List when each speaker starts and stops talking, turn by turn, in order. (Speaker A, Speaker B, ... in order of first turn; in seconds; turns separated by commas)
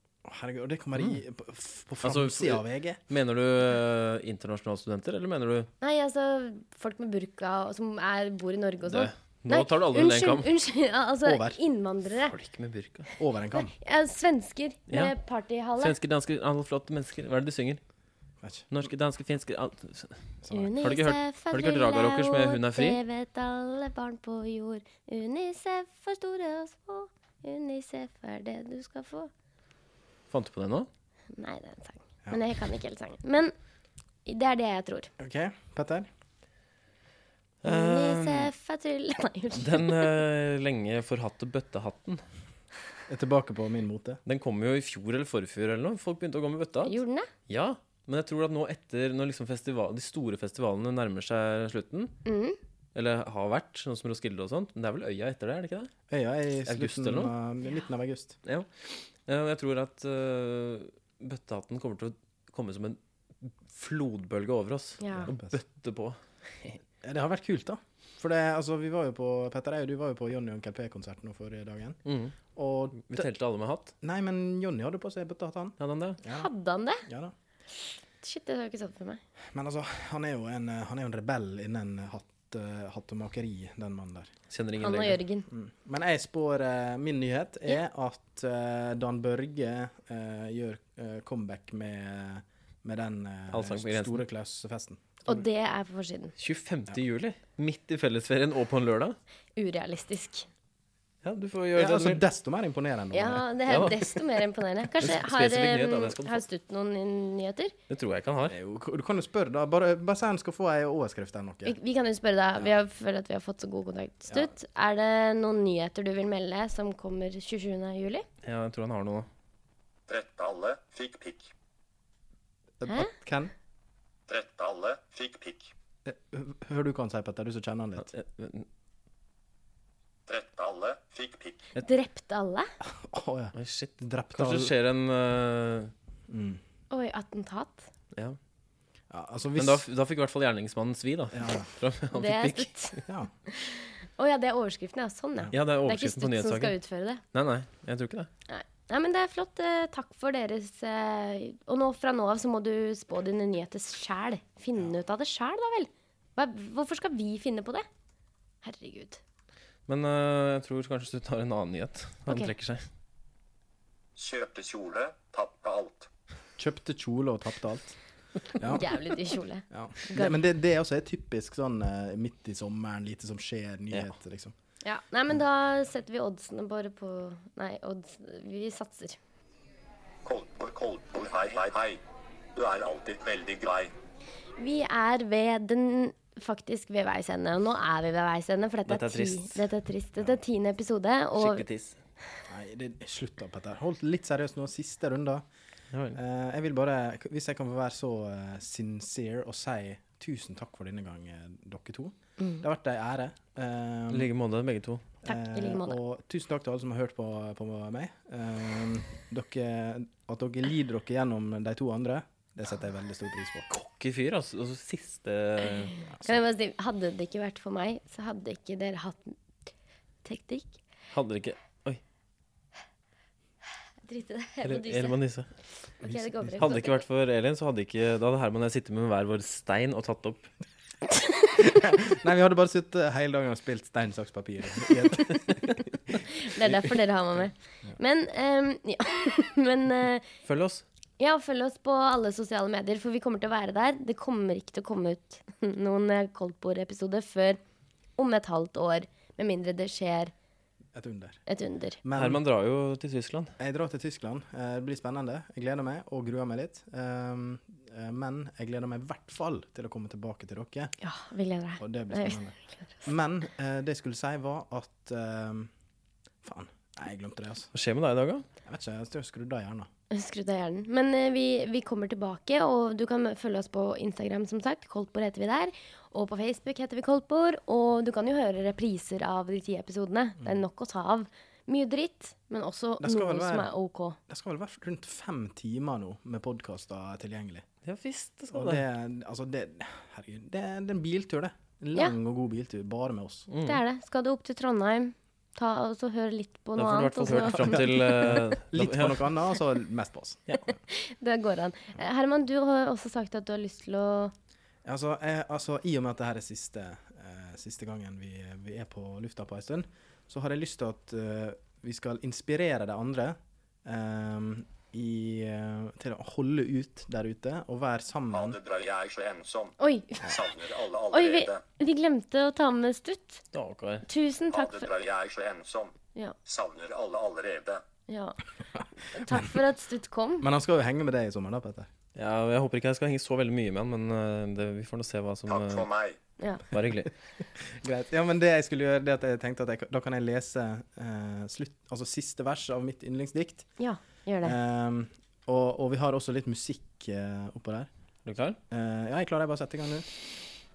Speaker A: 0.2-3.0, Speaker B: 2.0-5.7, Speaker C: 5.8-12.3, Speaker B: 8.9-10.5, Speaker A: 11.2-11.6, Speaker B: 12.2-13.1, Speaker A: 13.2-13.7, Speaker C: 13.5-15.9, Speaker B: 14.9-15.1, Speaker B: 15.8-17.8, Speaker A: 18.4-18.6, Speaker B: 18.7-20.2, Speaker A: 20.4-20.7, Speaker C: 20.5-29.3, Speaker B: 20.8-23.0, Speaker B: 30.3-30.9, Speaker C: 31.3-33.5, Speaker C: 34.2-35.1, Speaker A: 35.2-36.1, Speaker B: 37.6-38.5, Speaker C: 37.6-40.1, Speaker B: 39.5-42.2, Speaker A: 43.1-44.2, Speaker B: 44.2-47.0, Speaker C: 46.8-47.3, Speaker B: 47.5-52.1, Speaker C: 52.2-52.6, Speaker B: 52.9-55.9, Speaker A: 56.1-58.4, Speaker B: 56.6-57.3, Speaker B: 58.4-66.8, Speaker C: 65.0-65.3, Speaker A: 65.1-65.5, Speaker A: 67.0-72.0, Speaker B: 72.0-72.4, Speaker A: 72.5-73.3, Speaker B: 72.9-73.9, Speaker A: 74.0-76.5, Speaker B: 75.8-76.2, Speaker C: 76.3-77.0, Speaker A: 77.0-77.3, Speaker C: 78.2-79.2, Speaker A: 79.5-84.3, Speaker B: 84.5-85.2, Speaker C: 84.8-85.5, Speaker A: 85.5-95.4, Speaker B: 93.5-94.2, Speaker C: 95.2-96.3, Speaker B: 96.4-99.2, Speaker C: 99.5-100.5, Speaker B: 101.2-102.2, Speaker A: 101.8-103.5, Speaker C: 103.1-107.7, Speaker B: 103.7-104.4, Speaker B: 105.0-106.4, Speaker B: 107.9-108.5, Speaker A: 108.5-111.8, Speaker C: 111.6-118.2, Speaker B: 118.4-119.3, Speaker D: 120.1-121.5, Speaker A: 122.8-123.5, Speaker C: 122.8-123.1, Speaker D: 124.3-125.7, Speaker A: 126.0-128.1, Speaker B: 128.1-128.7, Speaker D: 130.3-131.7, Speaker C: 131.8-132.7, Speaker A: 132.8-134.7, Speaker B: 133.6-135.9, Speaker A: 136.3-136.6, Speaker C: 136.9-137.9, Speaker A: 139.1-139.8, Speaker B: 139.6-142.7, Speaker A: 141.3-141.7, Speaker C: 142.1-147.2, Speaker B: 145.5-146.7, Speaker B: 147.3-148.3, Speaker C: 148.5-157.8, Speaker C: 158.6-159.2, Speaker B: 159.9-162.8, Speaker C: 162.3-162.5, Speaker D: 164.2-166.1, Speaker A: 166.6-168.0, Speaker A: 168.5-168.9, Speaker C: 168.6-170.3, Speaker A: 169.7-174.5, Speaker C: 174.8-179.2, Speaker D: 180.2-182.0, Speaker D: 182.5-183.9, Speaker C: 184.6-191.6, Speaker B: 188.9-189.7, Speaker B: 191.4-192.0, Speaker A: 192.5-195.4, Speaker B: 195.9-196.2, Speaker A: 196.1-204.3, Speaker B: 204.1-205.1, Speaker C: 205.2-206.0, Speaker A: 205.2-213.7, Speaker B: 213.7-215.9, Speaker C: 216.2-219.4, Speaker C: 220.2-220.8, Speaker B: 221.1-222.0, Speaker C: 224.0-225.2, Speaker B: 224.6-225.5, Speaker C: 226.0-227.0, Speaker A: 226.0-226.5, Speaker B: 226.6-230.5, Speaker A: 231.6-236.2, Speaker C: 236.2-240.3, Speaker B: 240.4-240.8, Speaker C: 241.2-247.6, Speaker C: 248.2-250.3, Speaker A: 250.9-251.4, Speaker C: 251.5-252.0, Speaker A: 252.0-252.4, Speaker B: 252.1-253.5, Speaker A: 253.6-260.9, Speaker C: 261.0-263.1, Speaker A: 261.8-265.7, Speaker A: 266.4-267.7, Speaker B: 267.7-268.4, Speaker A: 268.6-269.9, Speaker C: 270.1-284.2, Speaker A: 283.0-283.7, Speaker A: 284.3-287.6, Speaker B: 287.8-288.8, Speaker A: 288.5-293.5, Speaker B: 293.5-293.8, Speaker C: 293.6-298.4, Speaker B: 296.8-299.3, Speaker A: 297.3-300.5, Speaker C: 300.5-304.3, Speaker A: 304.8-318.6, Speaker D: 318.3-321.6, Speaker C: 319.8-320.3, Speaker C: 321.1-323.4, Speaker B: 323.5-324.1, Speaker C: 324.1-324.9, Speaker D: 324.5-325.9, Speaker D: 326.4-327.8, Speaker C: 328.1-328.4, Speaker C: 328.9-330.5, Speaker A: 330.4-331.9, Speaker B: 332.1-335.9, Speaker D: 335.5-336.2, Speaker B: 336.7-337.1, Speaker A: 337.6-343.7, Speaker C: 343.8-344.5, Speaker A: 344.4-347.9, Speaker B: 348.2-348.6, Speaker A: 348.7-350.1